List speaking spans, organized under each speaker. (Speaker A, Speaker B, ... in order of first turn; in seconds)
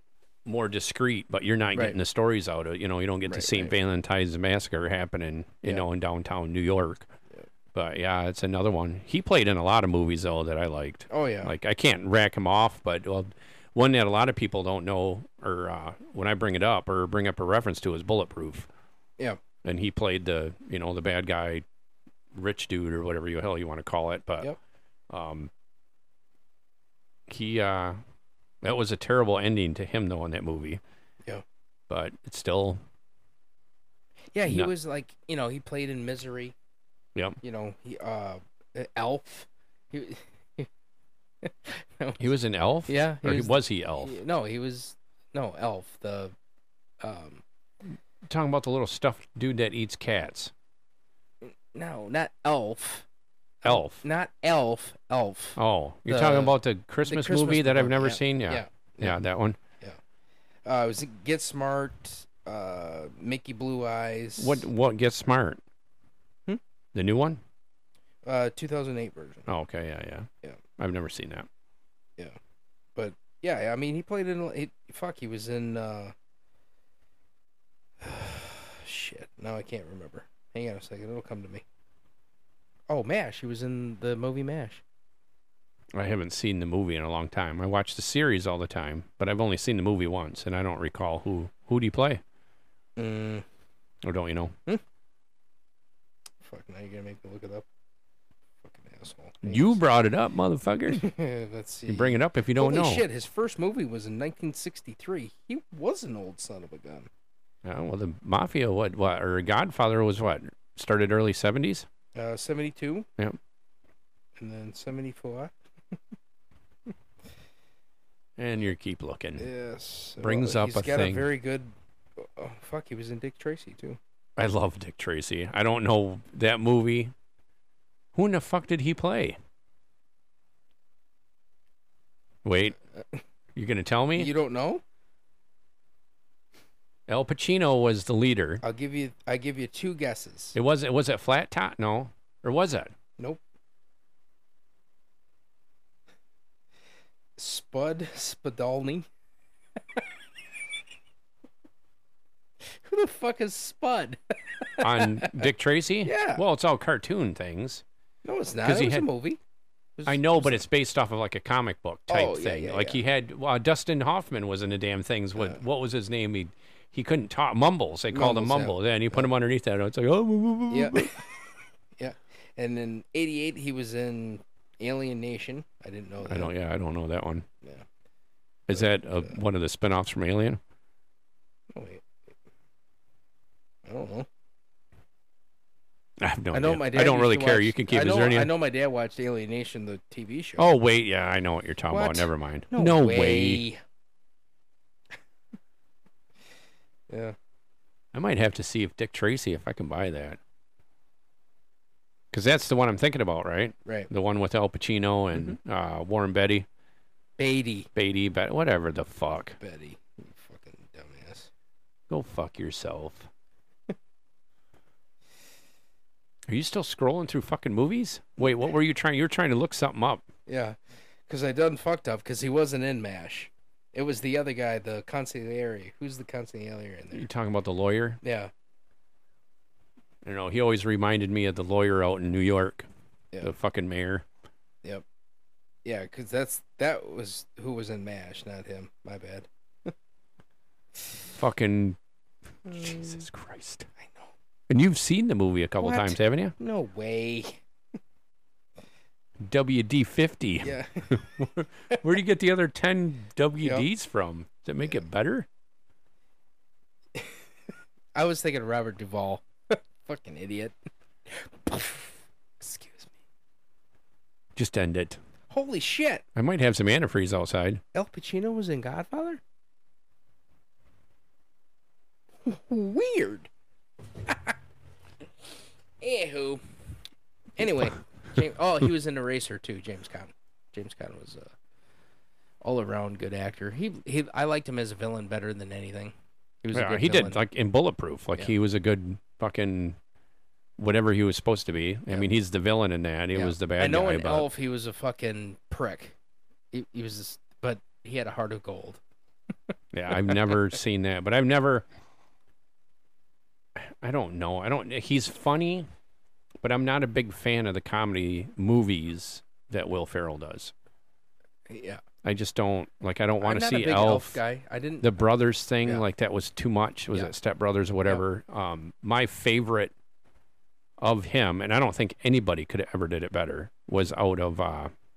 Speaker A: 0.5-7.1, 7.7-18.7, 19.6-21.6, 22.3-24.5, 25.1-25.5, 27.3-28.0, 28.6-30.8, 31.9-32.8, 42.2-44.2, 48.2-50.5, 53.6-54.0, 55.6-59.6, 64.4-65.6, 66.9-67.4, 69.5-71.5, 85.9-92.2, 94.0-94.5, 99.4-101.1, 101.9-103.0, 107.6-111.9, 118.4-119.5, 120.2-121.3, 124.4-127.1, 128.1-129.4, 132.4-132.8, 133.5-134.3, 137.1-138.6, 140.5-142.9, 154.8-157.8, 158.6-159.1, 160.1-171.2, 176.2-177.4, 178.7-180.6, 186.2-188.5, 190.6-193.6, 198.1-200.4, 202.3-206.7, 207.9-209.6, 212.1-213.3, 216.5-220.2, 227.1-228.2, 230.2-232.9, 233.4-234.2, 241.3-242.0, 242.7-243.9, 244.7-246.5, 249.4-255.5, 264.6-265.2, 266.4-267.8, 286.7-290.0, 290.8-294.5, 299.9-301.8, 303.8-305.9, 306.6-310.7, 312.2-314.4, 315.0-319.9, 321.0-324.9
Speaker B: 3.3-3.7, 11.1-11.5, 34.3-36.5, 37.4-40.7, 41.4-42.2, 42.9-46.3, 47.0-47.4, 51.4-53.0, 53.6-59.2, 60.6-64.6, 68.2-69.5, 73.0-76.1, 78.0-81.6, 82.9-84.8, 93.0-93.4, 96.4-97.7, 98.6-99.8, 100.9-107.1, 112.1-113.1, 114.4-115.5, 119.4-124.0, 134.2-134.8, 138.6-140.5, 147.4-149.1, 152.7-155.4, 156.0-156.4, 158.2-159.4, 160.0-160.6, 162.1-163.0, 168.1-169.3, 170.7-171.2, 172.0-176.5, 178.8-179.4, 181.7-182.0, 183.8-184.3, 186.5-190.7, 191.9-193.8, 197.1-197.3, 207.4-207.9, 209.6-211.5, 220.5-220.8, 221.3-227.2, 228.2-228.5, 235.8-239.9, 242.7-243.2, 244.0-244.3, 245.8-247.6, 250.6-251.1, 258.1-260.8, 261.3-263.1, 265.5-266.2, 267.9-269.4, 272.4-273.5, 274.3-274.5, 276.0-276.6, 277.6-281.5, 282.6-287.4, 293.3-296.1, 296.7-299.0, 300.1-300.5, 311.7-312.0, 313.4-315.1